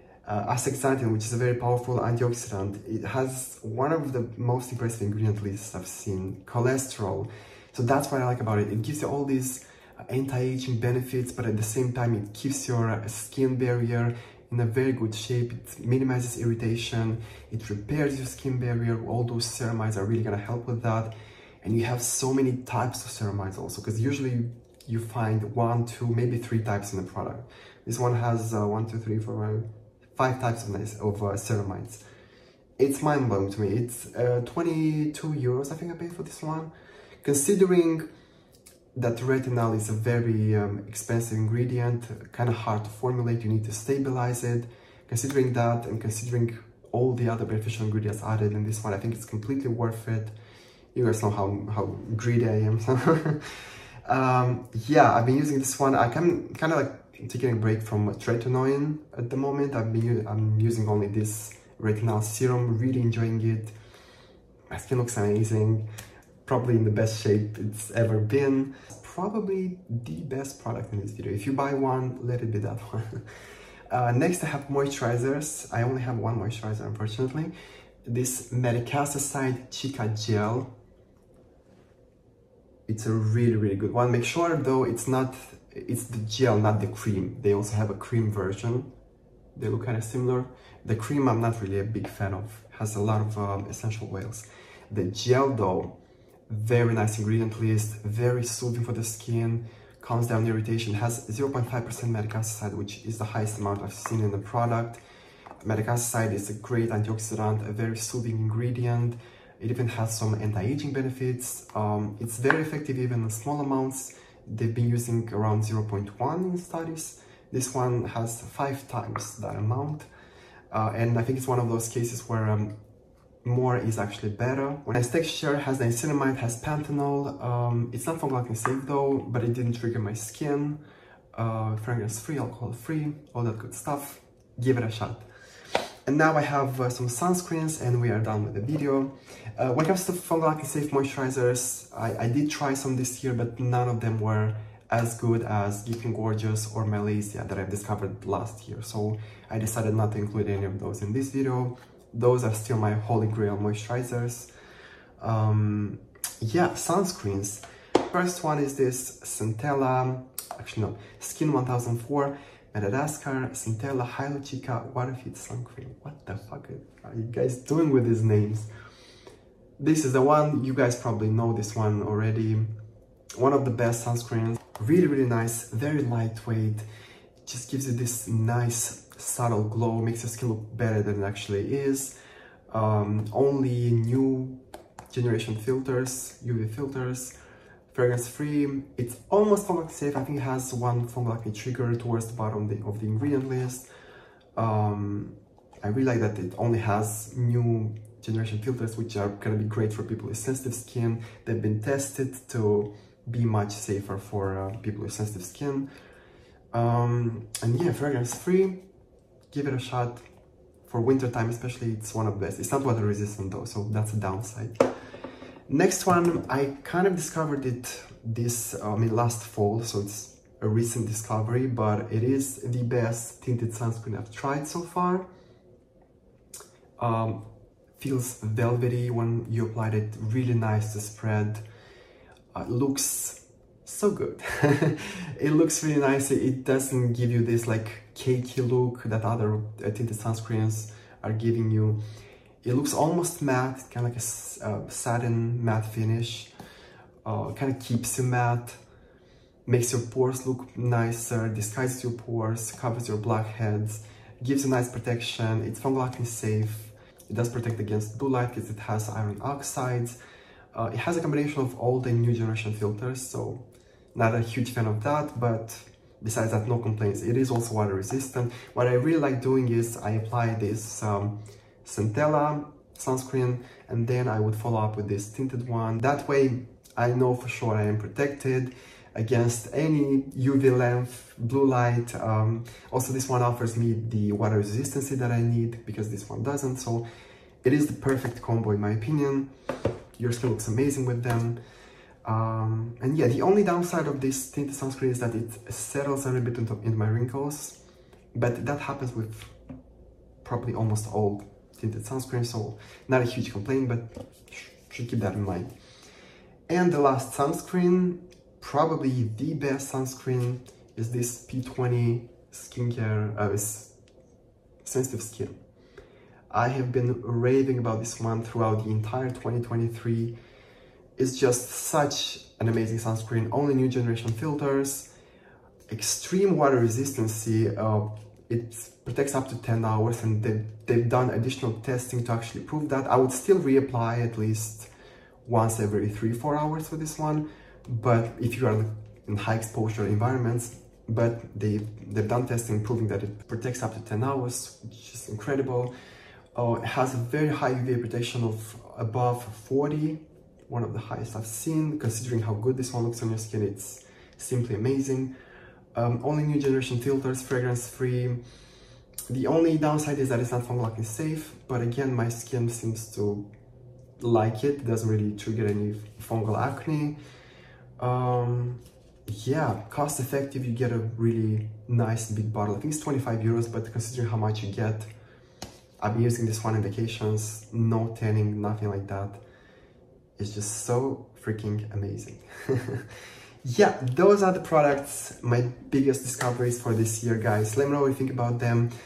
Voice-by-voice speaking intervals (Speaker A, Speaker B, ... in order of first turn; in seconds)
Speaker A: 0.2-29.6, 30.1-32.0, 32.8-38.0, 38.9-50.3, 50.9-53.5, 54.0-63.7, 64.7-65.8, 66.4-73.2, 73.9-77.5, 78.0-80.7, 82.9-88.9, 89.5-95.9, 96.5-105.0, 105.6-120.1, 120.7-122.7, 123.4-130.8, 131.3-135.2, 136.1-154.5, 155.2-168.7, 169.8-172.7, 173.3-176.8, 177.4-182.1, 182.7-184.6, 185.1-187.3, 187.9-193.9, 194.6-205.9, 206.7-208.8, 209.5-210.2, 210.8-214.8, 215.7-225.2, 227.0-227.4, 228.0-231.6, 232.5-242.0, 242.6-246.5, 247.2-248.8, 249.7-260.2, 260.7-287.0, 287.6-289.5, 290.2-291.6, 292.2-297.8, 298.3-299.5, 300.4-305.7, 306.7-313.9, 314.8-315.6, 316.5-320.3, 321.2-325.1, 325.9-334.9, 335.4-345.9, 346.5-355.3, 355.9-358.4, 359.3-363.4, 364.2-367.2, 368.0-375.1, 376.0-379.4, 380.4-383.1, 383.6-388.9